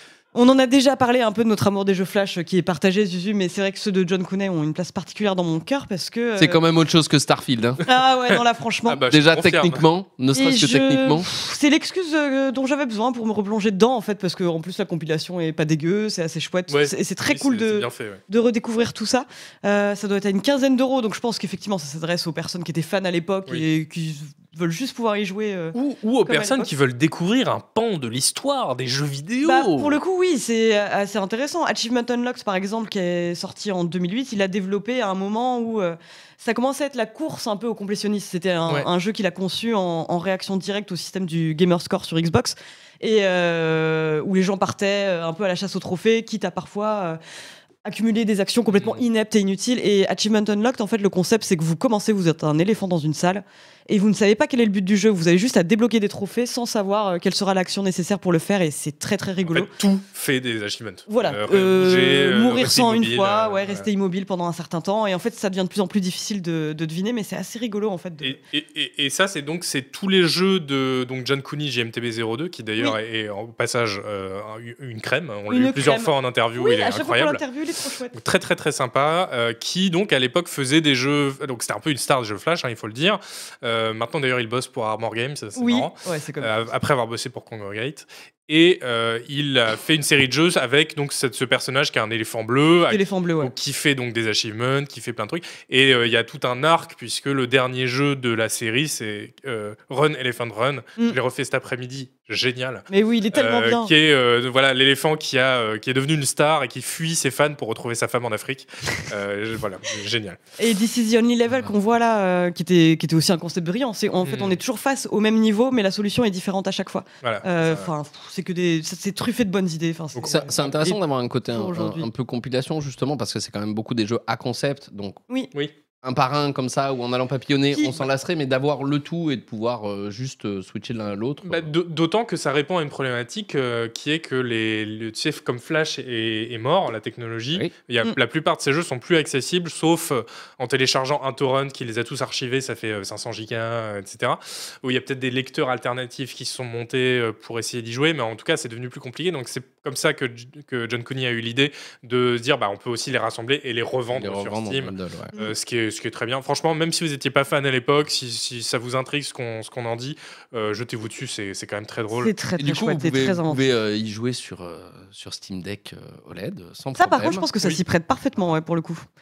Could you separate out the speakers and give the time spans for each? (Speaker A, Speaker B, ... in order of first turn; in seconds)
Speaker A: 0.3-6.6, 7.8-9.0, 10.3-26.7, 29.4-47.2, 47.8-59.7, 61.1-68.4, 75.5-78.2, 85.6-86.5, 92.9-93.5, 102.9-103.9, 110.6-121.0, 121.5-122.1, 127.7-128.1, 162.1-163.6, 167.0-169.1
Speaker B: 6.4-7.8, 9.1-11.3, 120.2-125.2, 126.0-131.7, 154.1-155.3, 162.6-167.5
Speaker C: 8.9-9.8, 16.7-18.2, 25.7-30.0, 48.7-49.0, 59.5-63.9, 68.2-77.4, 78.1-110.4, 114.2-114.6, 117.2-117.9, 120.2-120.5, 131.4-162.3